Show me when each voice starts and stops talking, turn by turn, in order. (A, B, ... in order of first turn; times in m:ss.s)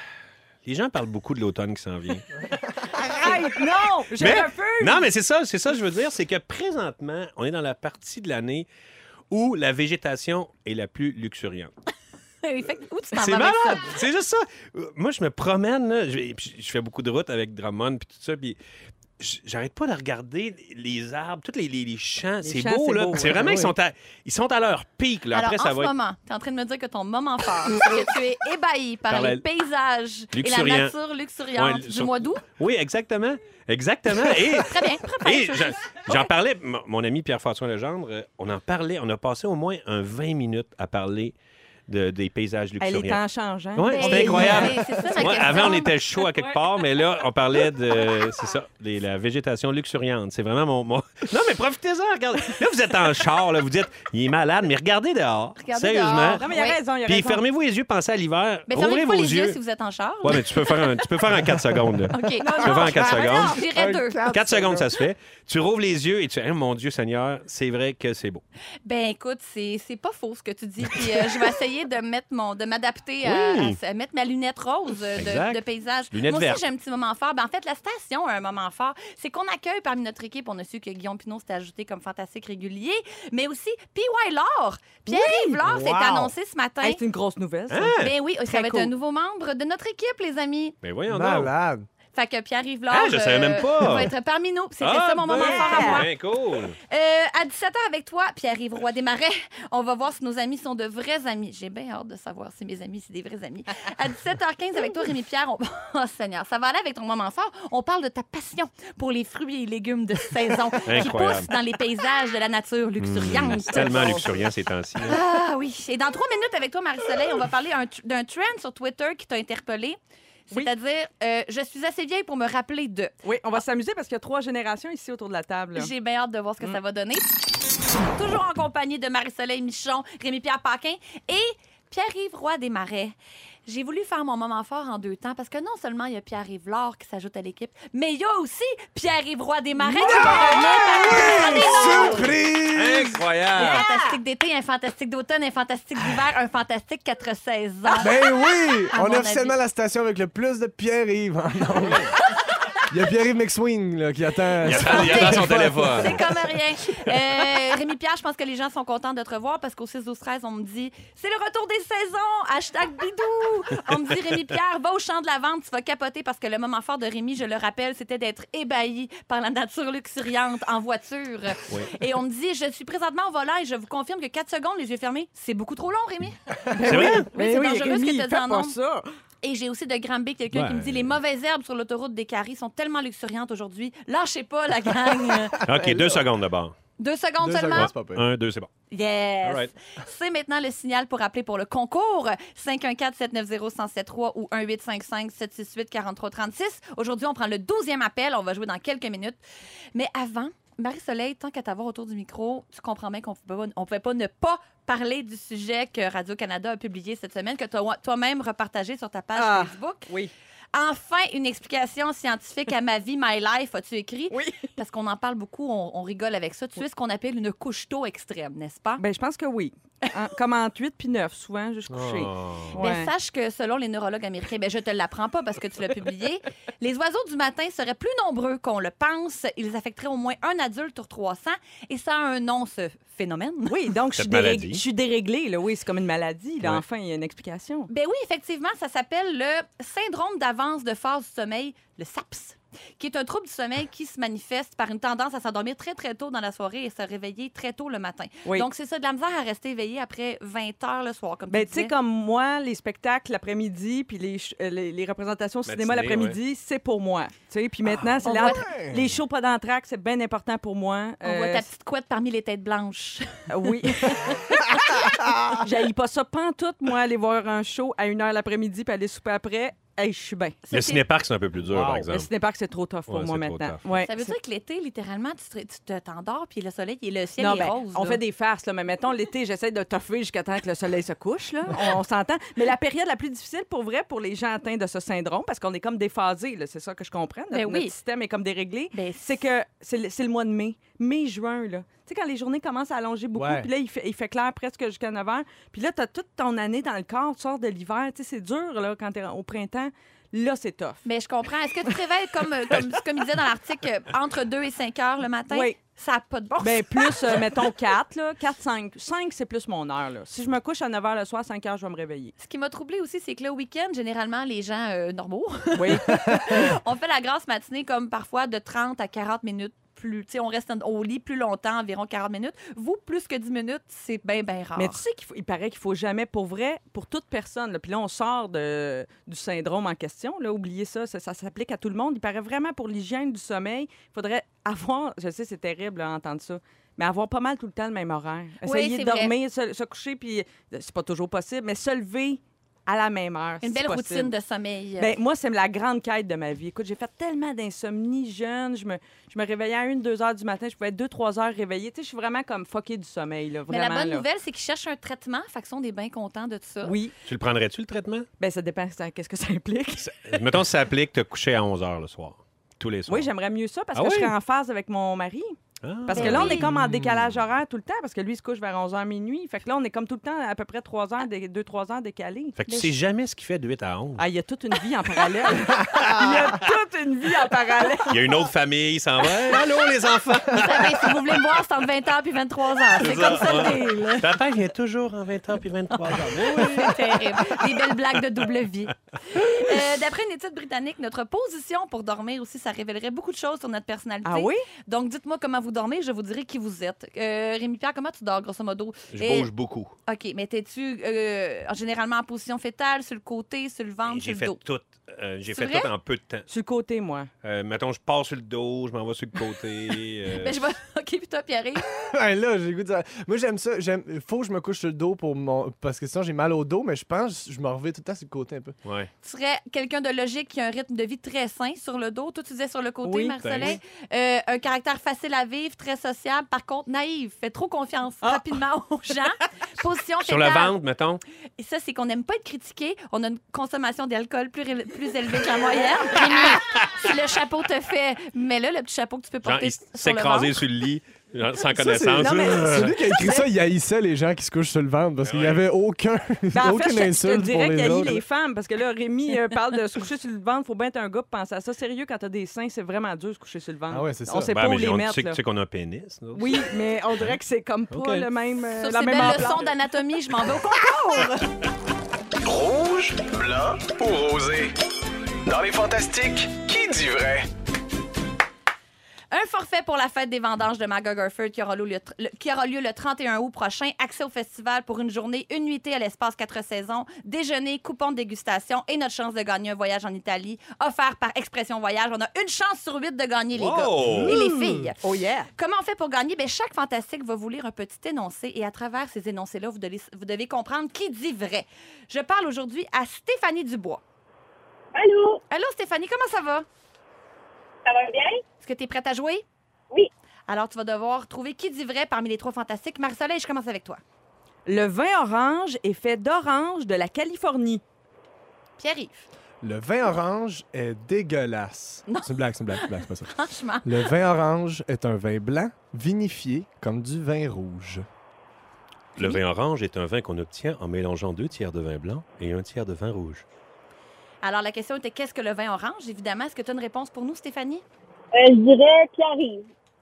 0:00.6-0:02.3 A
0:03.0-0:05.1 B
0:04.2-0:08.7 A
0:09.3-0:11.7 A
0:12.4-0:14.0 C
0:13.2-0:18.6 A
0:19.2-0:25.9 A
0:22.4-0:23.6 B
0:23.3-0:23.7 D
0:25.3-0:32.4 C
0:29.1-0:29.4 A
0:30.3-0:30.9 A
0:31.6-0:41.3 A
0:34.5-0:36.3 C
0:41.9-0:43.2 A
0:42.8-0:46.6 B
0:43.8-0:56.5 A
0:43.9-0:45.9 C
0:55.6-0:56.8 C
0:56.4-0:57.4 B
0:57.0-0:59.6 A
0:58.7-1:00.9 C
1:00.2-1:03.6 A
1:02.1-1:04.2 C
1:02.4-1:03.4 B
1:02.7-1:05.0 D
1:04.3-1:08.4 A
1:08.8-1:27.0 C
1:13.2-1:13.8 A
1:15.2-1:16.6 A
1:25.1-1:25.6 B
1:25.6-1:26.3 D
1:26.8-1:28.9 B
1:27.7-1:28.1 A
1:28.0-1:30.8 C
1:30.8-1:31.5 A
1:31.1-1:31.8 D
1:32.1-1:36.1 C
1:32.9-1:34.1 A
1:34.8-1:36.8 A
1:35.3-1:36.0 B
1:36.9-1:54.2 C
1:50.8-1:51.5 A
1:53.0-1:55.2 A
1:53.4-1:54.4 B
1:55.0-2:00.0 C
2:00.5-2:03.1 C
2:03.2-2:05.9 B
2:05.7-2:07.4 C
2:08.0-2:13.1 C
2:13.6-2:22.3 C
2:19.8-2:22.0 B
2:20.0-2:23.2 D
2:22.7-2:23.8 A
2:23.5-2:28.2 C
2:23.6-2:24.0 B
2:28.0-2:32.1 D
2:28.9-2:29.5 C
2:32.9-2:36.2 D
2:34.6-2:36.2 A
2:34.7-2:58.8 C
2:51.7-2:51.9 A
2:56.7-2:59.1 B
2:56.8-2:57.3 A
2:59.4-3:05.6 C
3:00.5-3:01.1 A
3:05.3-3:06.2 D
3:05.6-3:06.8 A
3:07.0-3:07.9 C
3:07.4-3:08.3 D
3:07.7-3:08.7 A
3:08.9-3:19.4 C
3:09.4-3:09.7 A
3:19.9-3:30.1 C
3:29.4-3:30.3 B
3:30.7-3:39.0 C
3:34.3-3:34.7 B
3:39.0-3:43.1 B
3:41.9-3:42.8 A
3:42.7-3:53.8 C
3:53.7-3:57.9 B
3:54.2-3:54.8 A
3:57.9-4:11.9 C
4:11.5-4:21.6 B
4:15.7-4:16.4 A
4:18.2-4:18.6 C
4:18.4-4:19.1 D
4:21.2-4:24.5 C
4:23.5-4:24.5 B
4:25.5-4:30.6 B
4:30.7-4:31.0 C
4:30.7-4:32.3 A
4:31.6-4:32.1 D
4:32.0-4:34.3 B
4:33.1-4:33.8 A
4:33.9-4:38.2 C
4:37.4-5:01.0 B
4:47.5-4:47.9 C
4:48.9-4:49.4 C
4:53.4-4:53.7 D
5:01.0-5:07.4 C
5:05.5-5:05.8 B
5:06.6-5:12.3 B
5:12.4-5:25.0 C
5:15.7-5:16.7 B
5:24.8-5:44.3 B
5:38.6-5:39.3 C
5:43.6-5:45.1 C
5:45.0-5:54.2 B
5:53.7-5:57.0 C
5:56.8-5:57.1 B
5:57.2-5:58.3 A
5:58.4-6:00.4 B
6:00.0-6:03.3 A
6:03.1-6:12.6 B
6:03.9-6:04.3 A
6:05.8-6:06.7 A
6:06.1-6:06.7 C
6:06.4-6:07.3 D
6:12.6-6:14.2 A
6:12.7-6:12.9 C
6:14.2-6:18.2 B
6:15.9-6:16.4 A
6:18.1-6:21.2 A
6:20.5-6:24.3 C
6:22.9-6:27.6 A
6:26.0-6:39.5 C
6:34.2-6:34.6 B
6:39.1-6:39.9 A
6:40.0-6:44.6 C
6:44.1-6:46.5 A
6:45.5-6:45.9 C
6:46.5-6:47.3 B
6:47.4-6:50.6 A
6:50.3-6:51.9 C
6:51.9-6:58.7 D
6:58.8-6:59.1 A
6:59.2-7:10.8 C
7:03.0-7:03.8 B
7:03.4-7:03.8 A
7:08.2-7:08.6 B
7:10.2-7:11.2 A
7:11.6-7:20.6 C
7:19.4-7:22.9 A
7:21.7-7:28.2 D
7:22.2-7:23.4 B
7:25.2-7:25.6 A
7:26.5-7:35.4 B
7:33.9-7:34.5 D
7:34.5-7:37.4 A
7:36.3-7:39.7 B
7:37.9-7:38.3 A
7:38.8-7:41.6 C
7:42.4-7:44.7 E
7:45.4-7:47.5 E
7:49.3-8:05.0 C
8:03.5-8:04.4 A
8:04.0-8:04.9 D
8:05.0-8:05.5 B
8:05.5-8:14.0 C
8:14.9-8:15.4 F
8:15.5-8:16.6 C
8:17.8-8:18.4 F
8:18.6-8:19.4 C
8:20.5-8:24.0 C
8:24.7-8:27.8 B
8:28.8-8:29.3 C
8:29.6-8:33.3 D
8:32.1-8:34.1 C
8:33.8-8:38.0 D
8:39.2-8:43.4 A
8:44.4-8:47.8 C
8:48.3-8:49.7 F